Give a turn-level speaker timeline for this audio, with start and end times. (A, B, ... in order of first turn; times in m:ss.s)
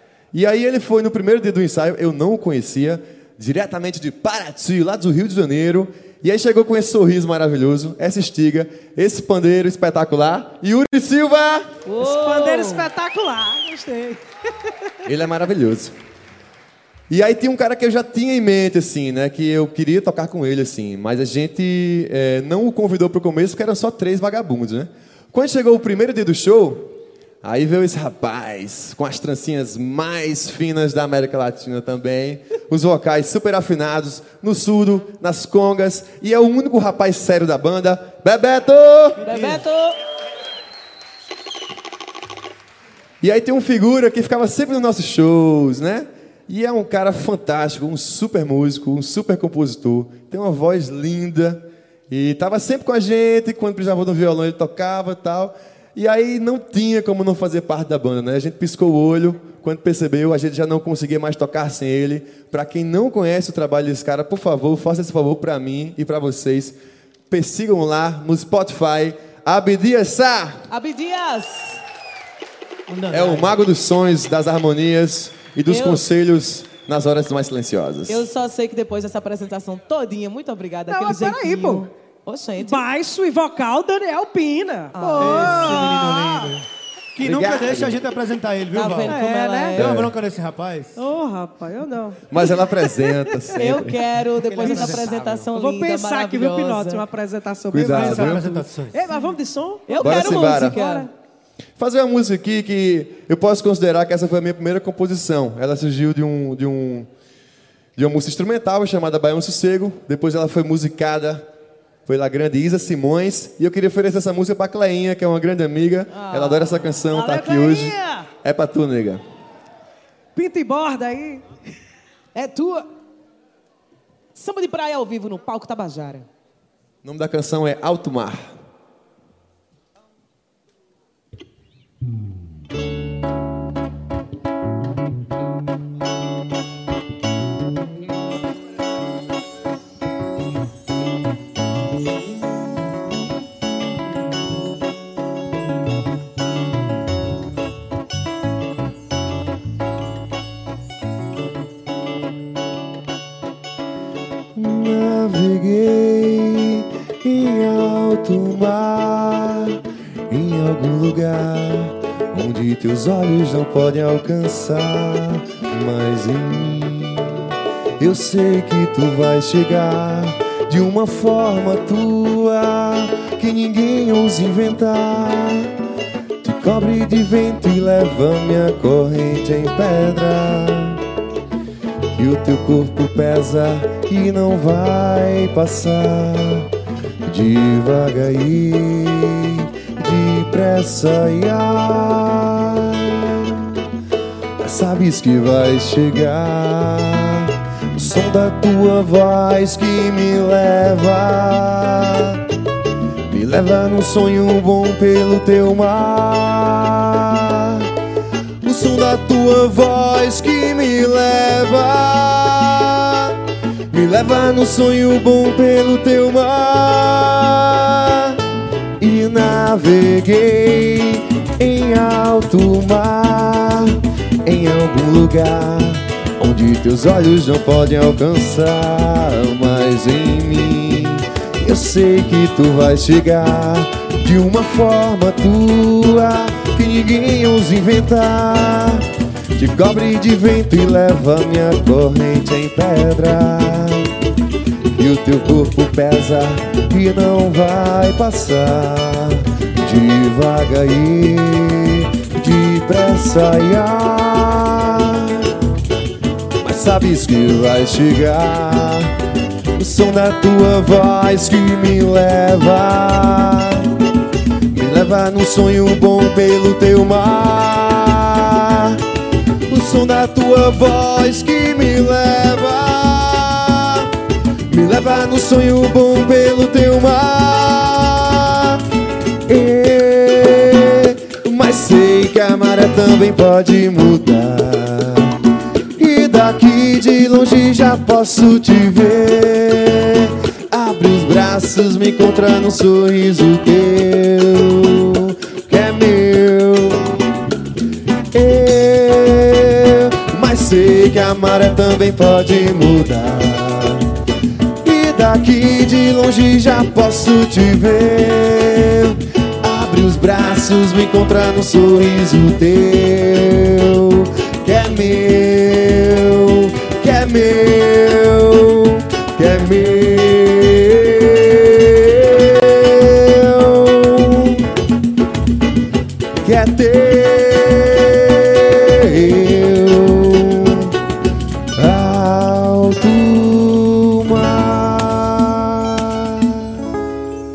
0:00.3-0:11.7 A
0:11.9-0:12.9 B
0:12.0-0:14.8 C
0:15.0-0:15.9 A
0:17.1-0:39.2 A
0:39.2-0:40.0 B
0:39.3-0:39.6 D
0:43.2-1:06.8 A
1:07.3-1:10.6 A
1:10.7-1:11.8 B
1:12.9-1:13.6 D
1:13.1-1:18.3 A
1:15.7-1:16.0 B
1:18.1-1:22.8 B
1:20.9-1:21.9 C
1:22.6-1:26.5 C
1:25.0-1:25.8 B
1:25.2-1:29.2 D
1:27.2-1:28.0 A
1:28.7-1:29.9 B
1:29.0-1:29.8 C
1:29.8-1:31.0 D
1:29.8-1:30.1 A
1:31.0-1:33.3 C
1:32.3-1:34.0 A
1:33.6-1:37.0 B
1:34.4-1:35.2 D
1:34.6-1:41.1 C
1:37.7-1:38.6 A
1:37.9-1:39.1 D
1:39.9-1:41.1 B
1:40.0-1:40.8 A
1:41.8-1:47.1 A
1:48.0-1:51.5 A
1:52.1-1:59.2 A
1:56.1-1:56.9 B
1:57.1-1:58.3 C
2:00.4-2:01.4 C
2:02.4-2:02.9 B
2:04.4-2:06.3 B
2:07.0-2:08.5 A
2:34.6-2:55.7 A
2:56.4-3:01.0 A
3:02.2-3:06.7 A
3:07.2-3:13.8 A
3:14.6-3:22.4 A
3:23.3-3:27.9 A
3:28.6-3:33.4 A
3:33.9-3:38.4 A
3:39.0-4:04.1 A
4:05.0-4:15.5 A
4:16.6-4:19.2 A
4:19.8-4:23.9 A
4:24.7-4:29.0 A
4:29.7-4:34.1 A
4:34.7-4:38.8 A
4:39.5-4:45.4 A
4:46.0-4:57.2 A
4:58.3-5:04.1 A
5:04.8-5:24.7 A
5:26.4-5:31.0 A
5:31.8-5:36.8 A